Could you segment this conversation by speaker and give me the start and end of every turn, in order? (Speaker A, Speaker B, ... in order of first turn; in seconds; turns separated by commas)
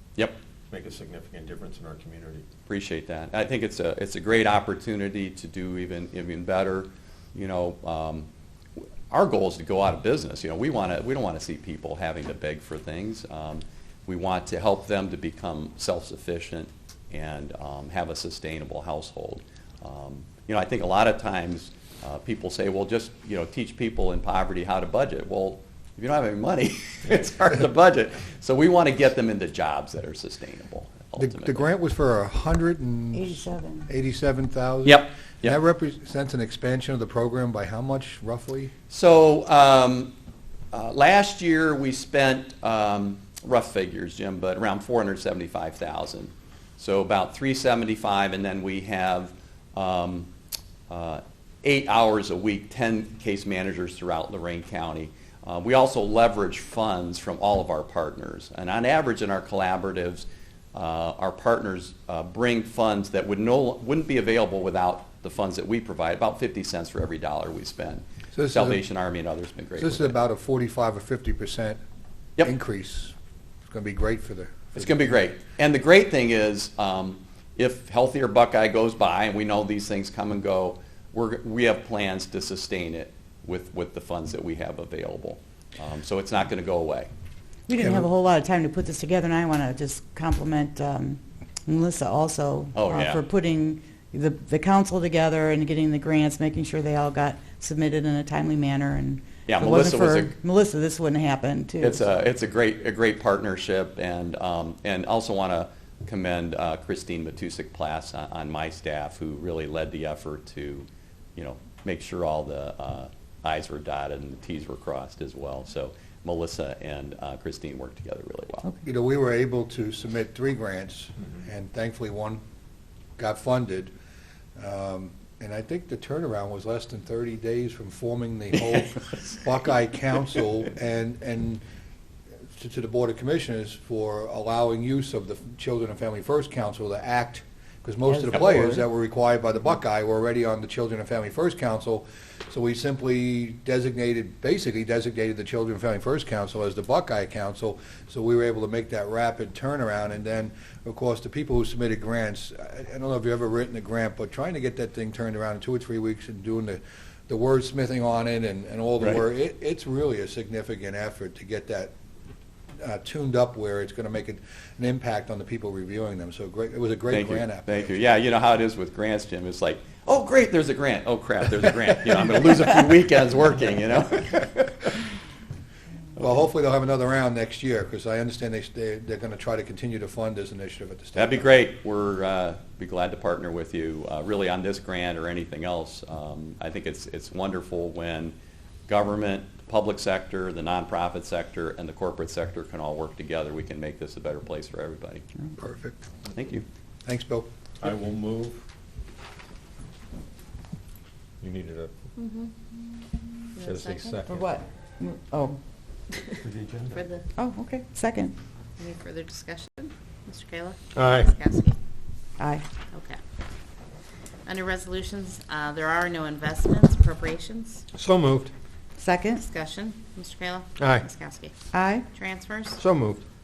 Speaker A: 0.7-2.5, Speaker B: 2.7-8.3, Speaker B: 9.1-31.6, Speaker C: 31.2-38.7, Speaker D: 33.1-33.9, Speaker B: 34.8-35.6, Speaker B: 38.9-40.1, Speaker B: 40.7-50.3, Speaker B: 50.9-70.1, Speaker C: 68.3-68.8, Speaker C: 69.8-71.8, Speaker C: 72.4-73.1, Speaker C: 73.7-75.0, Speaker B: 74.7-87.1, Speaker D: 87.7-102.1, Speaker B: 92.7-93.2, Speaker B: 99.5-100.3, Speaker B: 101.8-118.7, Speaker C: 118.8-122.4, Speaker C: 123.2-123.9, Speaker C: 124.5-131.6, Speaker C: 132.5-161.9, Speaker D: 138.1-138.8, Speaker C: 162.8-167.8, Speaker B: 167.1-175.0, Speaker C: 176.2-181.5, Speaker B: 181.1-188.3, Speaker B: 188.9-195.2, Speaker C: 195.6-196.0, Speaker B: 196.3-196.6, Speaker C: 197.0-197.5, Speaker A: 197.8-198.6, Speaker A: 201.4-201.9, Speaker E: 202.2-202.6, Speaker E: 203.5-204.2, Speaker A: 203.6-204.4, Speaker D: 204.3-205.6, Speaker E: 206.1-206.4, Speaker A: 206.4-207.1, Speaker E: 206.9-207.3, Speaker D: 207.4-208.3, Speaker E: 208.8-211.8, Speaker A: 210.9-211.3, Speaker D: 212.4-212.6, Speaker E: 212.9-213.2, Speaker E: 214.4-217.8, Speaker A: 217.9-218.5, Speaker D: 219.0-219.4, Speaker E: 219.3-221.5, Speaker A: 220.8-221.1, Speaker D: 221.7-222.1, Speaker E: 222.1-222.8, Speaker A: 222.8-223.2